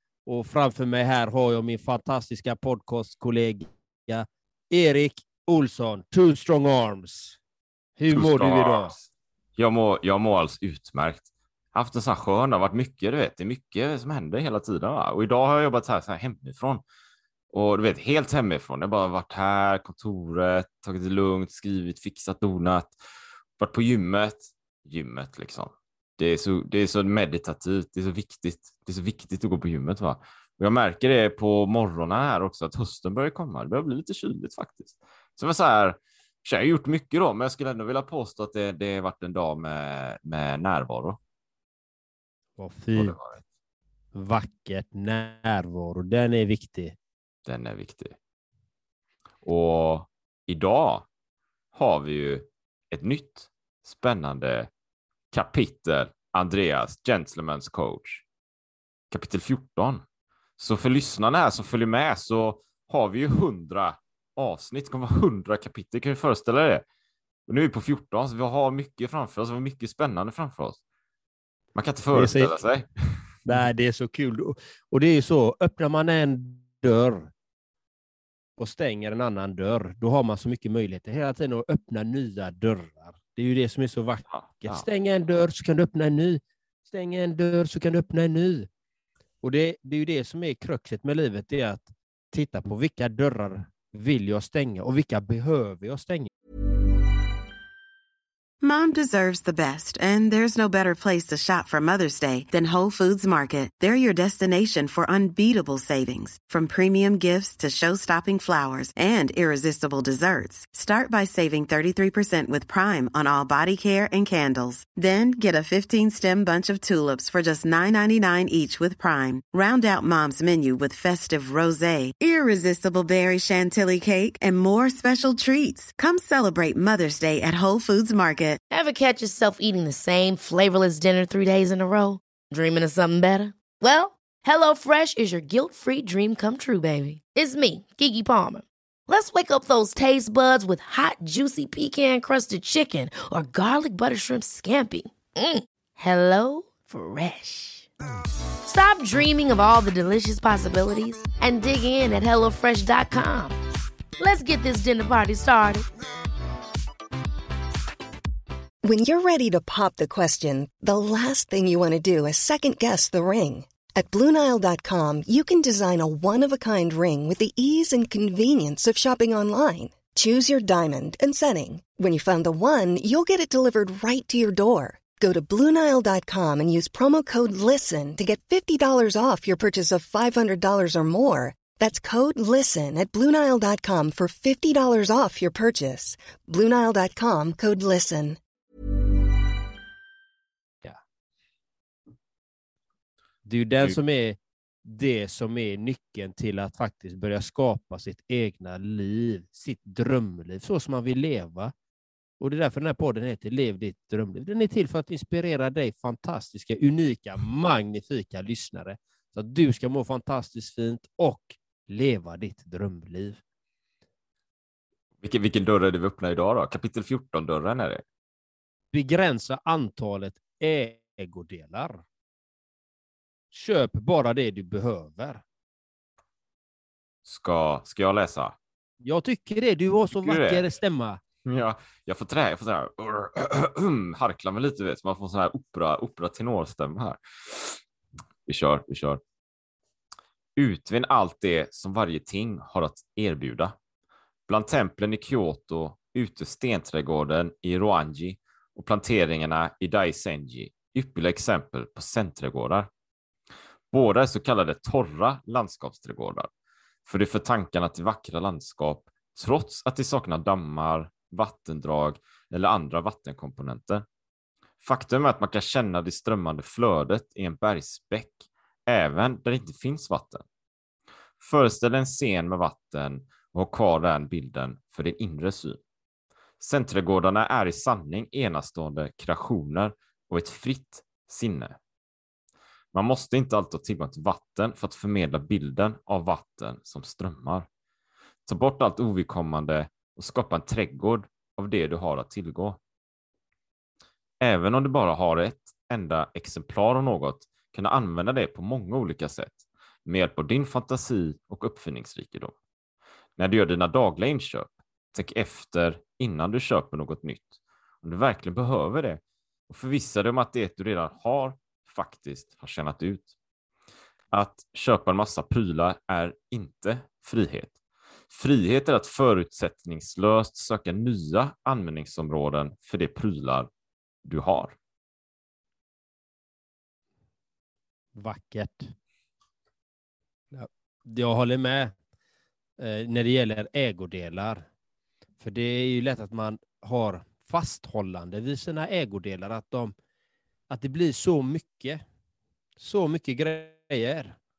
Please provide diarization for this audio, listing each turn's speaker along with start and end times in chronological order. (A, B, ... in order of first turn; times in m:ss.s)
0:00.2-0:07.4 A
0:08.0-0:08.9 A
0:08.1-0:09.0 B
0:09.6-0:16.8 B
0:17.5-0:23.0 B
0:23.6-0:41.2 B
0:42.6-0:43.2 A
0:43.0-0:43.4 B
0:44.1-0:46.9 A
0:47.4-0:48.1 B
0:49.4-0:51.0 B
0:51.7-0:54.7 B
0:55.3-0:58.2 B
0:59.1-1:00.0 B
1:00.6-1:06.8 B
1:07.5-1:10.8 B
1:11.7-1:13.3 B
1:12.1-1:12.5 A
1:13.4-1:17.3 A
1:18.6-1:28.7 A
1:24.3-1:24.8 B
1:29.4-1:36.3 A
1:38.6-2:08.6 C
2:08.7-2:27.9 D
2:28.6-2:33.6 D
2:34.2-2:35.8 D
2:38.8-3:08.4 E
3:13.4-3:21.7 A
3:22.4-3:33.4 A
3:35.2-3:38.0 B
3:38.9-3:42.0 A
3:43.5-3:45.4 A
3:47.2-3:48.6 B
3:49.0-3:51.2 A
3:50.2-3:50.7 B
3:51.4-3:57.8 B
3:58.5-3:59.2 B
4:00.6-4:03.7 B
4:04.5-4:12.9 B
4:13.9-4:16.5 B
4:17.0-4:24.0 B
4:24.8-4:30.4 B
4:31.4-4:35.8 B
4:36.6-4:41.8 B
4:42.9-4:47.7 B
4:48.4-4:52.8 B
4:54.4-5:02.5 B
5:03.4-5:13.3 B
5:14.3-5:17.7 B
5:18.3-5:23.7 B
5:24.2-5:24.7 B
5:28.2-5:28.9 A
5:30.5-5:31.9 A
5:32.8-5:34.6 A
5:35.4-5:39.9 A
5:40.7-5:42.0 A
5:42.8-5:44.4 A